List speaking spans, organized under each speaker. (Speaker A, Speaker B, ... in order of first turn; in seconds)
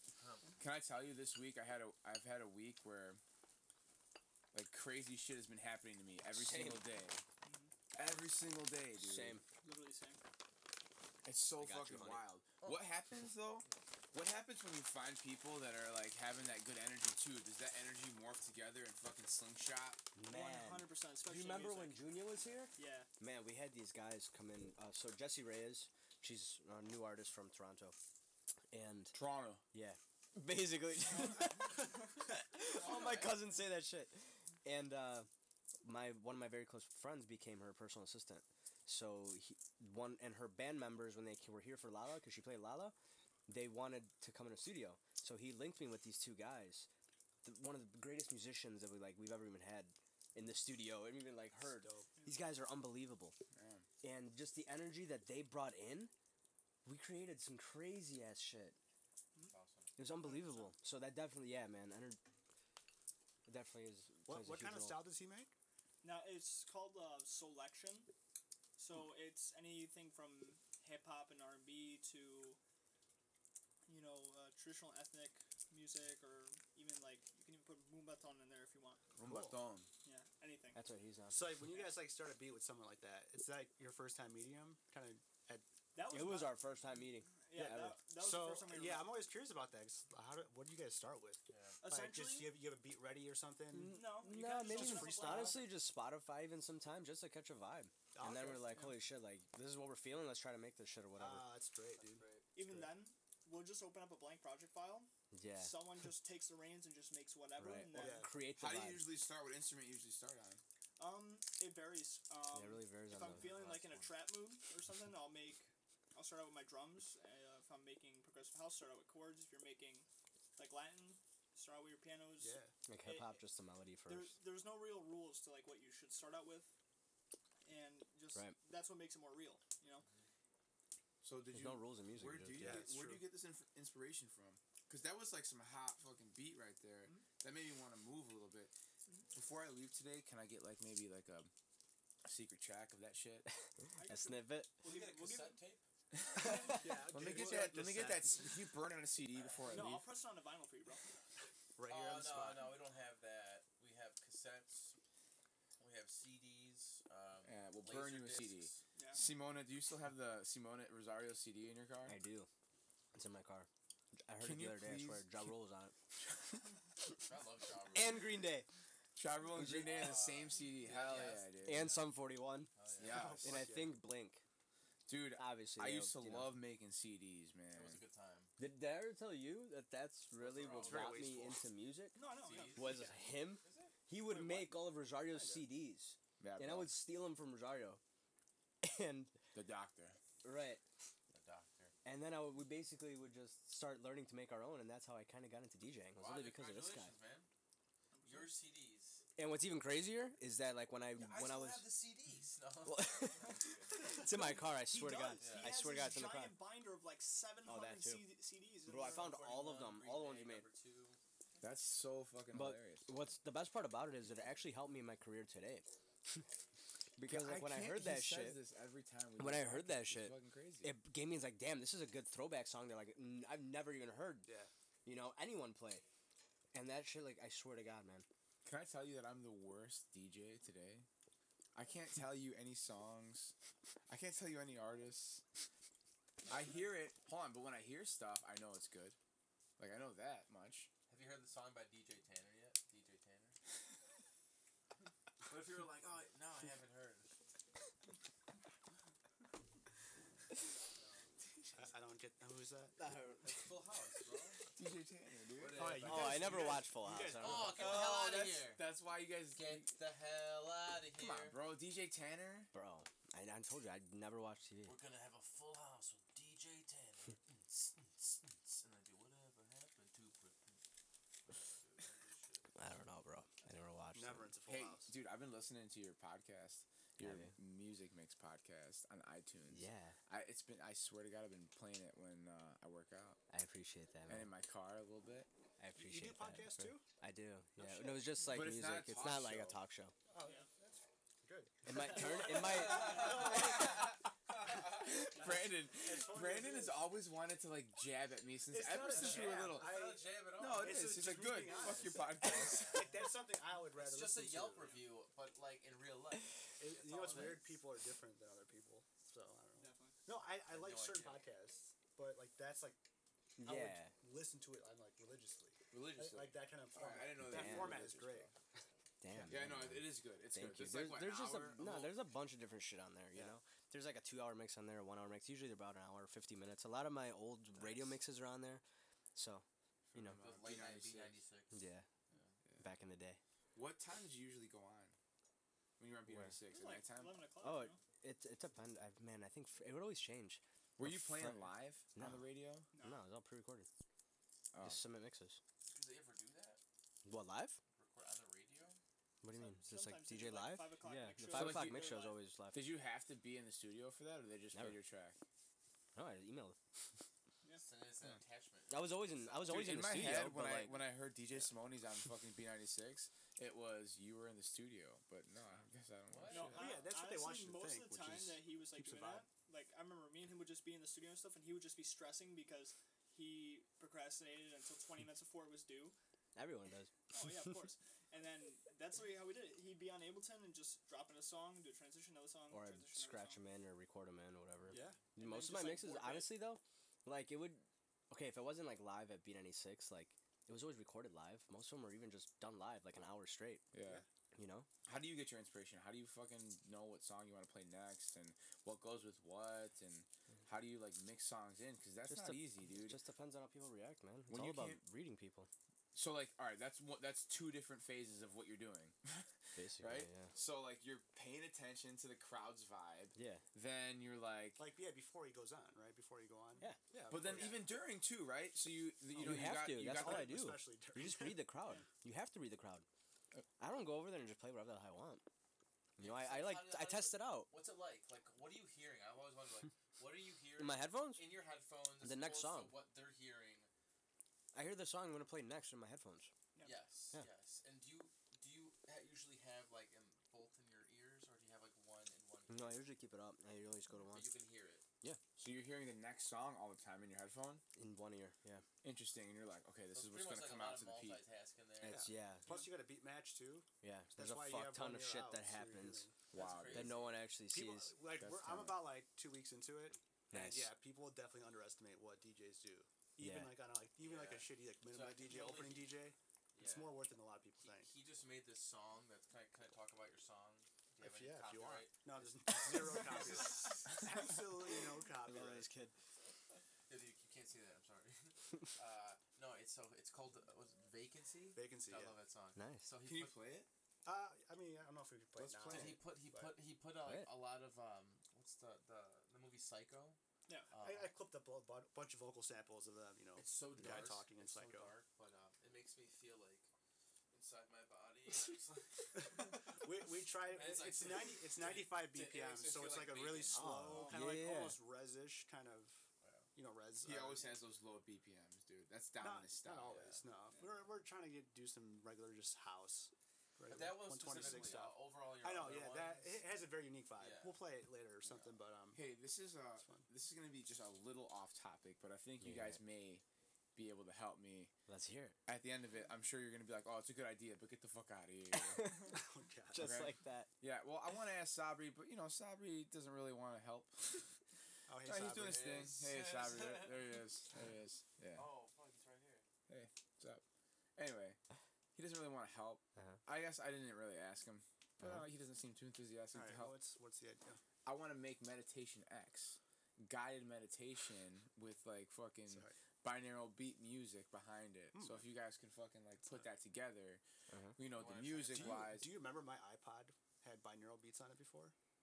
Speaker A: 0.2-0.5, 32.6-33.4, 59.5-59.9, 91.5-91.8, 113.2-114.1, 144.8-145.8, 151.9-155.0, 155.8-158.8, 167.2-168.4, 169.6-172.1, 172.8-173.3, 177.7-178.5, 180.4-181.1, 182.3-183.9, 191.3-191.9, 196.1-197.5, 198.2-199.2, 201.1-204.1, 205.4-205.7, 208.9-211.2, 241.1-243.6, 245.4-247.3, 253.4-254.6, 255.6-256.8, 257.4-258.9, 259.5-261.6, 264.8-270.8, 271.4-272.7, 292.6-294.0, 299.0-301.9, 302.5-303.1, 303.9-307.8, 310.7-311.4, 330.4-331.8, 332.3-332.5, 345.9-346.8, 347.9-349.0, 357.8-359.9, 366.3-366.9, 426.2-433.9, 436.8-443.0, 444.3-445.0, 450.1-452.3, 456.5-457.4, 464.2-466.2, 466.7-467.2, 467.8-474.3, 477.1-483.6, 485.8-490.4, 490.9-491.3, 493.6-496.9, 497.5-500.0, 500.6-504.2, 506.4-506.7, 510.1-510.4, 513.9-516.6, 517.4-517.8, 535.6-537.4, 538.5-539.6, 558.1-559.1
Speaker B: 0.6-3.2, 4.5-7.2, 7.9-9.4, 11.2-20.0, 29.1-29.6, 53.5-53.9, 79.1-79.9, 108.5-110.6, 131.2-138.7, 139.3-141.5, 142.2-143.5, 146.1-150.1, 157.4-162.2, 164.4-165.5, 166.2-166.6, 169.2-172.0, 173.0-173.7, 175.1-178.0, 180.9-181.2, 186.4-186.9, 189.5-190.2, 211.6-213.1, 217.2-220.9, 228.6-231.1, 231.7-233.5, 234.1-235.4, 236.5-239.2, 239.8-240.9, 254.8-256.6, 257.7-259.9, 261.1-262.7, 274.6-283.4, 284.3-285.5, 288.4-289.8, 293.3-303.1, 315.9-318.5, 319.4-322.2, 330.1-331.4, 333.7-335.1, 336.0-337.4, 341.0-342.9, 344.7-345.0, 351.5-355.4, 359.6-367.0, 393.9-394.2, 395.0-403.2, 404.5-405.0, 406.1-414.8, 417.3-420.6, 445.6-447.8, 449.0-451.4, 456.5-457.3, 458.4-459.0, 483.2-483.9, 485.6-486.1, 507.2-510.4, 519.1-523.4, 523.9-524.9, 525.7-529.2, 530.0-534.5, 535.2-538.7, 539.9-540.6, 541.1-541.6, 542.1-547.0, 548.0-557.4, 558.0-559.4
Speaker C: 6.3-6.8, 9.0-9.4, 11.6-12.2, 20.1-28.0, 28.7-29.1, 29.7-35.3, 35.8-42.9, 43.5-46.9, 47.4-53.4, 54.0-56.1, 56.8-58.8, 60.0-62.2, 63.5-65.0, 80.7-81.6, 86.1-88.0, 93.7-101.5, 105.3-105.8, 107.6-109.1, 112.5-113.5, 122.9-124.3, 131.5-132.9, 144.0-144.7, 162.1-162.5, 163.1-163.7, 164.2-165.9, 167.9-168.7, 169.5-170.1, 171.6-172.7, 173.4-174.4, 175.4-176.6, 178.6-188.0, 188.8-189.4, 190.4-190.8, 192.0-197.1, 199.4-201.9, 202.8-206.6, 207.7-208.3, 208.8-210.7, 212.5-216.4, 217.2-218.6, 219.4-224.5, 225.0-226.0, 226.7-228.2, 253.0-253.7, 256.0-257.8, 262.7-265.0, 272.7-274.5, 277.2-277.5, 279.7-280.2, 283.5-284.5, 285.8-290.1, 291.8-293.7, 313.6-314.1, 317.4-318.0, 319.2-328.8, 329.3-330.4, 331.7-332.1, 332.8-333.4, 336.3-336.6, 337.6-343.9, 344.8-345.6, 347.2-347.8, 349.4-352.9, 354.7-355.0, 356.1-356.8, 358.9-361.0, 376.6-377.8, 382.7-393.8, 394.5-394.9, 402.3-405.7, 409.8-410.5, 413.3-413.6, 419.4-423.1, 423.8-425.4, 426.2-427.7, 430.8-431.4, 432.2-433.0, 434.7-436.5, 442.7-444.5, 447.9-448.9, 452.0-452.7, 454.0-456.3, 456.9-458.1, 460.5-460.9, 463.4-463.8, 475.4-476.1, 482.8-483.1, 487.2-487.5, 503.7-505.0, 522.6-523.0, 525.1-525.5, 528.7-529.4, 529.9-530.7, 557.7-558.0
Speaker D: 7.4-7.7, 9.6-10.2, 20.3-22.1, 22.8-23.1, 59.3-60.7, 66.0-68.1, 68.8-72.6, 73.9-79.0, 80.0-80.8, 85.9-86.6, 87.4-89.2, 91.8-92.6, 93.8-95.7, 98.7-99.0, 102.5-108.3, 111.0-123.4, 124.0-126.7, 127.6-130.1, 143.9-145.6, 149.7-151.1, 158.9-159.2, 182.1-183.2, 184.3-184.7, 198.1-198.5, 204.0-209.4, 290.4-290.7, 309.8-310.2, 336.7-338.0, 342.9-343.2, 349.5-352.4, 366.5-376.1, 377.3-383.6, 385.4-386.6
Speaker E: 51.6-52.1, 64.3-65.5, 79.2-79.6, 81.3-85.7, 87.5-95.7, 98.1-98.9, 101.2-102.2, 107.9-108.4, 122.4-122.7, 132.6-133.3, 146.4-148.5, 151.8-152.8, 173.0-174.0, 180.8-181.6, 185.3-185.7, 224.4-224.7, 251.7-253.0, 255.7-258.0, 274.1-275.2, 285.9-287.1, 287.8-288.4, 290.3-294.1, 294.7-297.1, 298.7-305.0, 306.8-313.1, 313.6-318.5, 366.7-369.4, 384.9-385.2, 414.8-418.0, 419.4-421.7, 452.0-456.4, 457.7-468.1, 471.2-475.9, 481.7-482.4, 484.2-486.7, 491.0-495.1, 499.4-507.7, 509.4-519.4, 520.0-520.3, 529.3-530.2, 535.1-536.1, 546.5-547.8, 552.7-553.0, 555.1-555.5, 558.7-561.9